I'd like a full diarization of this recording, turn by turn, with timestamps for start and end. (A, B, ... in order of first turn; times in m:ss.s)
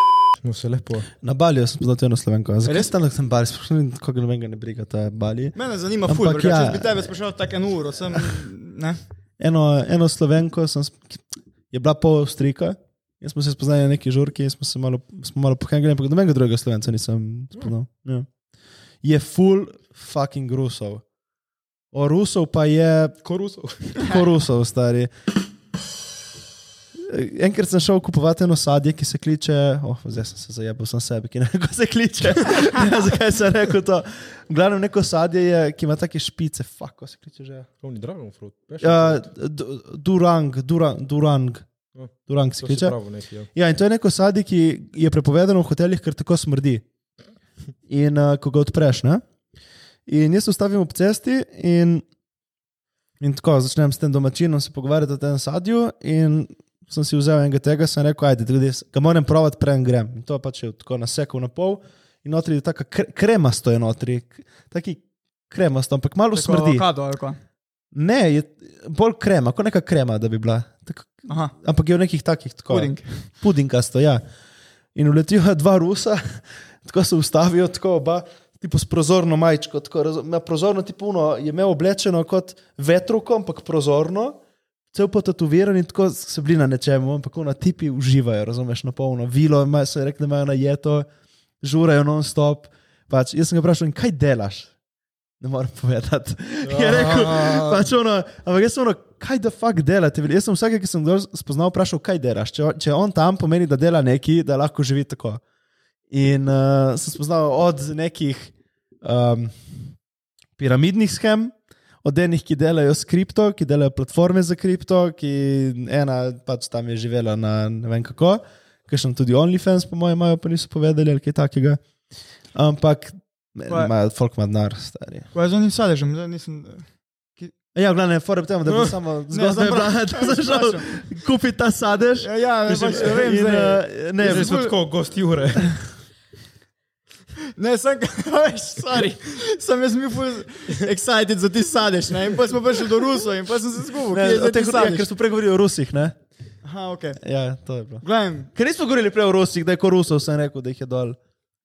0:00.4-0:01.1 A
0:01.2-0:05.6 B
0:02.6-0:02.9 C
0:05.6-0:09.0 C
0:06.1-0:07.1 B
0:09.4-0:18.3 B
0:19.0-0:21.0 B
0:21.9-0:23.2 B
0:23.2-0:24.1 A
0:24.0-0:25.1 B
0:27.0-0:37.7 B
0:37.8-0:39.2 A
0:38.8-0:41.7 B
0:42.0-0:43.5 A
0:42.3-0:43.0 B
0:43.5-0:46.8 B
0:47.9-0:49.2 B
0:50.1-0:52.0 B
0:53.2-1:06.8 B
1:06.3-1:07.4 C
1:07.9-1:14.2 B
1:11.3-1:11.5 C
1:12.7-1:13.1 C
1:15.0-1:24.4 B
1:24.9-1:31.1 B
1:31.6-1:34.7 B
1:35.4-1:45.4 B
1:36.6-1:37.9 A
1:46.1-1:49.9 B
1:50.6-2:01.8 B
2:02.6-2:05.3 B
2:03.7-2:03.9 C
2:05.3-2:06.8 C
2:07.8-2:12.3 B
2:08.7-2:09.0 A
2:09.3-2:11.0 C
2:12.2-2:14.8 C
2:12.7-2:13.1 A
2:12.8-2:14.6 B
2:14.2-2:15.8 A
2:17.6-2:25.1 C
2:24.1-2:26.1 B
2:26.6-2:27.2 C
2:27.2-2:28.0 B
2:28.0-2:28.5 C
2:28.5-2:31.2 B